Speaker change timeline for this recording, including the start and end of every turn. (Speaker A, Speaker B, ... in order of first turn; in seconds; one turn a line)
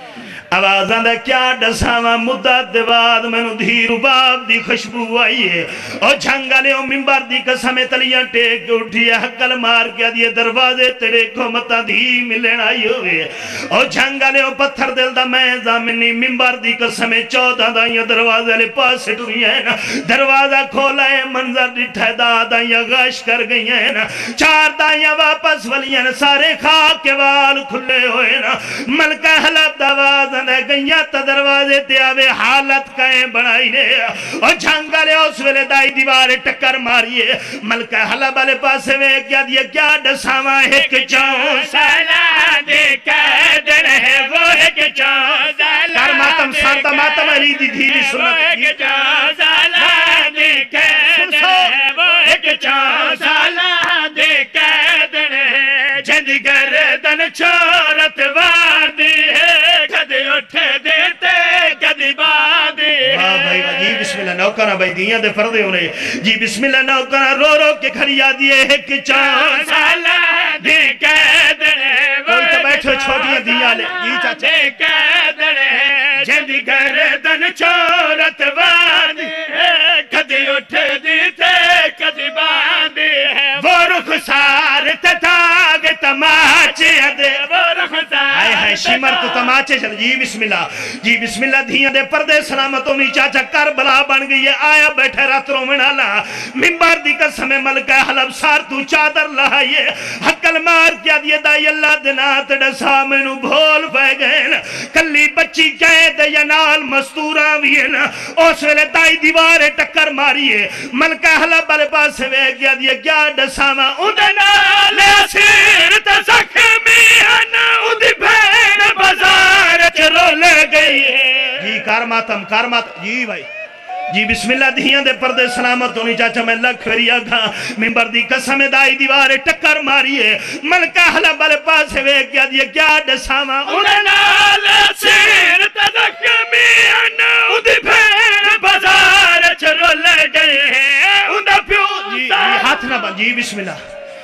Speaker A: 0.5-41.9
Speaker B: 40.9-64.0
Speaker A: 45.9-48.8
Speaker A: 51.0-51.8
Speaker A: 63.0-69.9
Speaker B: 69.1-84.2
Speaker A: 72.3-74.5
Speaker A: 83.6-87.3
Speaker B: 86.3-89.5
Speaker A: 88.3-115.3
Speaker B: 114.1-121.8
Speaker A: 121.6-123.5
Speaker A: 124.1-134.1
Speaker B: 133.7-143.1
Speaker A: 141.9-143.8